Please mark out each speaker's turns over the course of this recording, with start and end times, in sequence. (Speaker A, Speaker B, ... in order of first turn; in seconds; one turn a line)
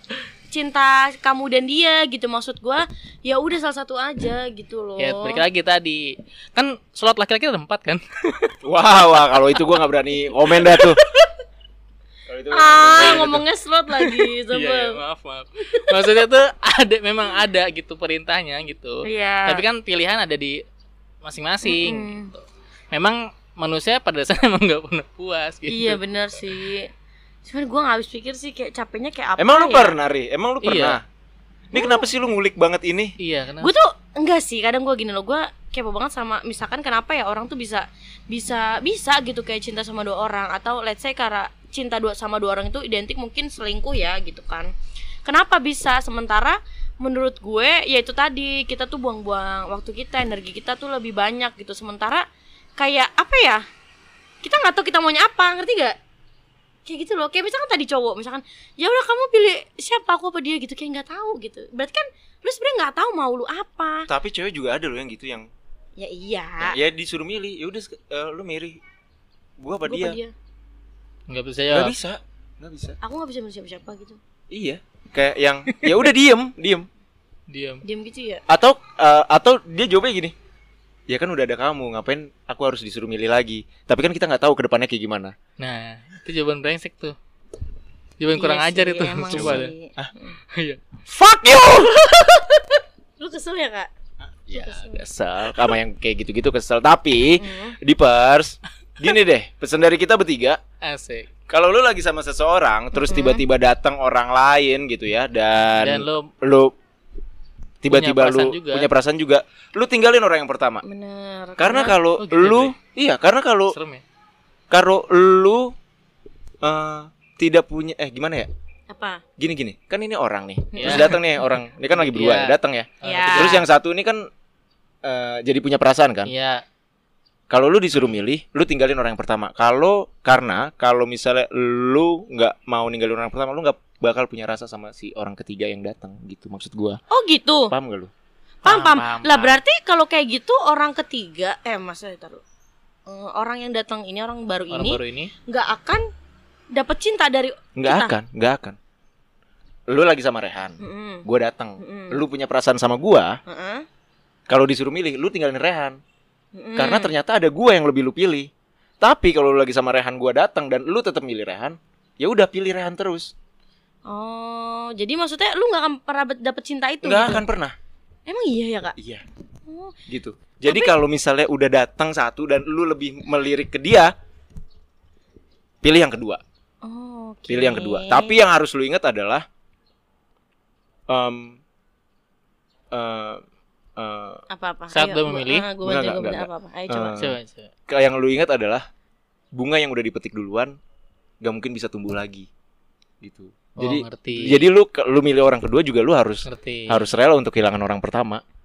Speaker A: 0.5-5.4
Speaker B: 5.0-8.5
Speaker C: 8.6-11.0
Speaker B: 10.5-11.3
Speaker C: 12.3-13.4
Speaker A: 12.5-15.0
Speaker B: 13.0-13.4
Speaker B: 13.9-20.6
Speaker A: 19.1-19.6
Speaker B: 21.2-26.6
Speaker A: 21.6-22.3
Speaker A: 25.7-26.9
Speaker A: 27.4-30.0
Speaker C: 29.4-31.0
Speaker B: 30.6-31.0
Speaker C: 31.7-33.1
Speaker A: 31.7-32.1
Speaker B: 33.2-33.7
Speaker A: 33.6-44.7
Speaker A: 45.2-52.2
Speaker A: 52.8-53.6
Speaker A: 54.4-56.0
Speaker A: 56.9-64.1
Speaker C: 64.1-65.5
Speaker A: 66.0-66.8
Speaker C: 66.6-68.8
Speaker C: 69.6-70.2
Speaker A: 69.9-70.3
Speaker B: 71.3-72.0
Speaker C: 71.7-73.0
Speaker A: 73.0-74.2
Speaker C: 74.5-76.9
Speaker B: 75.7-76.0
Speaker B: 77.5-77.8
Speaker A: 77.8-78.4
Speaker C: 78.5-80.3
Speaker C: 81.1-85.3
Speaker B: 85.6-87.2
Speaker B: 88.2-89.7
Speaker A: 88.3-90.4
Speaker C: 89.3-90.1
Speaker B: 90.5-90.8
Speaker C: 91.2-92.0
Speaker B: 91.7-92.4
Speaker A: 92.0-92.3
Speaker A: 93.2-93.9
Speaker C: 94.3-100.6
Speaker A: 94.5-95.1
Speaker A: 97.4-97.8
Speaker B: 100.8-101.3
Speaker C: 101.5-106.7
Speaker A: 103.0-103.4
Speaker B: 105.8-106.3
Speaker C: 107.8-110.8
Speaker B: 107.9-108.9
Speaker A: 110.8-112.0
Speaker C: 111.6-113.8
Speaker B: 112.2-112.8
Speaker B: 113.7-114.0
Speaker C: 114.7-115.8
Speaker C: 116.6-118.5
Speaker A: 118.9-119.2
Speaker C: 119.4-124.2
Speaker A: 120.8-121.1
Speaker B: 120.8-123.7
Speaker A: 123.0-123.6
Speaker C: 125.0-126.3
Speaker B: 126.3-126.6
Speaker C: 127.5-137.0
Speaker A: 137.1-137.7
Speaker C: 137.7-138.1
Speaker B: 138.6-139.6
Speaker A: 138.7-142.4
Speaker A: 143.1-146.0
Speaker B: 144.7-145.3
Speaker A: 146.7-148.1
Speaker C: 147.8-148.8
Speaker C: 149.9-153.3
Speaker A: 150.8-151.2
Speaker A: 151.8-152.2
Speaker A: 153.5-153.8
Speaker C: 154.5-156.0
Speaker A: 156.5-157.1
Speaker C: 156.8-158.5
Speaker C: 159.0-163.3
Speaker A: 164.1-167.4
Speaker C: 167.0-167.8
Speaker A: 168.3-168.9
Speaker C: 169.0-169.2
Speaker A: 169.7-170.0
Speaker C: 170.1-174.1
Speaker A: 170.7-170.9
Speaker C: 175.8-176.4
Speaker A: 176.8-178.4
Speaker C: 177.5-179.4
Speaker C: 181.1-181.6
Speaker C: 182.9-183.4
Speaker C: 184.0-184.4
Speaker A: 184.5-187.2
Speaker B: 184.9-185.7
Speaker C: 185.8-187.4
Speaker B: 187.2-187.7
Speaker C: 187.9-188.9
Speaker C: 189.5-190.7
Speaker C: 191.4-192.5
Speaker C: 193.2-198.4
Speaker B: 193.8-194.6
Speaker B: 196.5-197.1